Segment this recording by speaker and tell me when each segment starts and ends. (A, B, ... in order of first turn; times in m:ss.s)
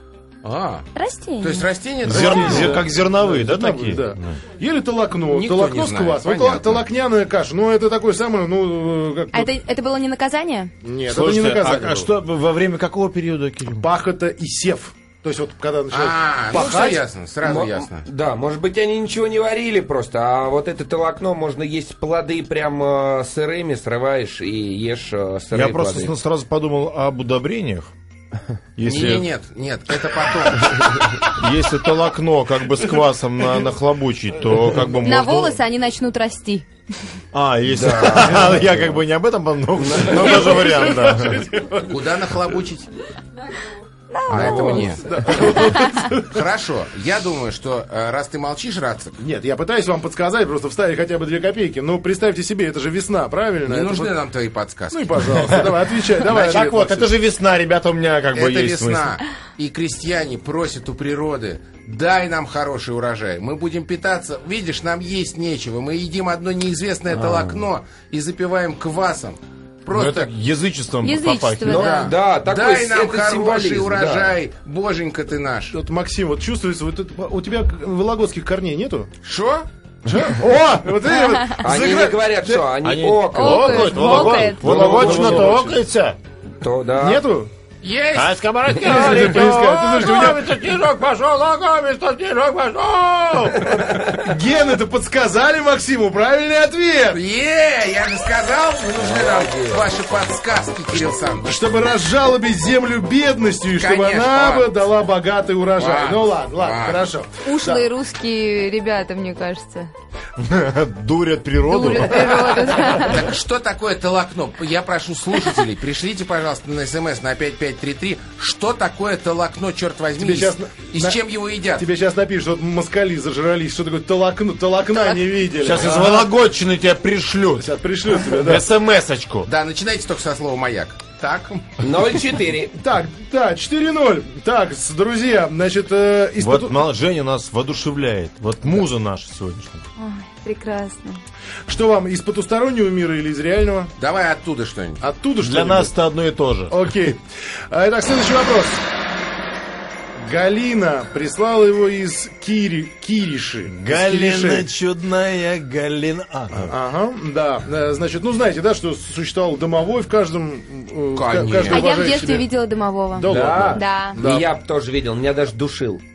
0:00.4-0:00.9 A
0:01.0-0:01.7 B
0:01.4-0:02.8 A
0:02.0-0:04.4 C
0:02.0-0:09.5 D
0:05.3-0:06.8 A
0:09.3-0:10.7 B
0:10.8-0:12.1 D
0:11.1-0:13.9 C
0:13.8-0:17.0 D
0:15.9-0:18.1 A
0:17.4-0:26.1 E
0:25.5-0:27.9 C
0:28.8-0:29.3 C
0:28.8-0:31.0 A
0:31.3-0:35.6 C
0:35.0-0:36.7 B
0:37.3-0:41.5 C
0:37.7-0:38.9 E
0:39.8-0:40.7 E
0:40.1-0:42.2 D
0:41.8-0:42.9 A
0:44.1-0:46.0 B
0:44.3-0:45.1 A
0:44.3-0:44.9 E
0:44.9-0:46.4 D
0:46.2-0:49.2 A
0:49.2-0:54.2 D
0:53.7-0:55.2 A
0:54.9-0:57.1 D
0:56.2-0:59.2 C
0:56.3-0:56.7 A
0:58.3-1:10.3 A
1:07.2-1:07.6 E
1:09.9-1:11.9 C
1:11.0-1:12.1 B
1:11.7-1:14.4 E
1:11.7-1:15.8 A
1:15.7-1:19.1 D
1:19.2-1:19.7 A
1:20.0-1:22.2 D
1:21.6-1:25.5 E
1:22.8-1:26.2 C
1:23.3-1:24.9 B
1:23.9-1:25.8 D
1:26.6-1:27.2 E
1:27.0-1:27.5 D
1:27.8-1:28.4 A
1:28.2-1:34.0 C
1:28.7-1:30.5 D
1:33.6-1:34.1 E
1:34.2-1:37.2 D
1:37.1-1:41.5 A
1:39.0-1:39.9 E
1:41.4-1:47.9 D
1:43.8-1:44.7 A
1:45.8-1:47.0 A
1:47.4-1:49.9 B
1:50.4-1:52.7 C
1:51.6-1:53.3 B
1:52.8-2:01.9 A
2:00.2-2:01.2 D
2:01.8-2:06.3 D
2:05.6-2:09.5 C
2:07.6-2:08.6 D
2:09.4-2:11.8 A
2:11.8-2:12.8 E
2:12.8-2:16.8 D
2:16.4-2:19.8 C
2:20.0-2:21.2 B
2:21.7-2:23.9 D
2:24.0-2:25.0 A
2:25.0-2:25.9 D
2:25.4-2:26.8 C
2:26.7-2:28.8 D
2:30.2-2:34.6 D
2:33.7-2:36.7 C
2:36.6-2:42.5 D
2:41.1-2:42.2 A
2:41.6-2:44.2 B
2:43.1-2:44.5 D
2:43.3-2:46.0 E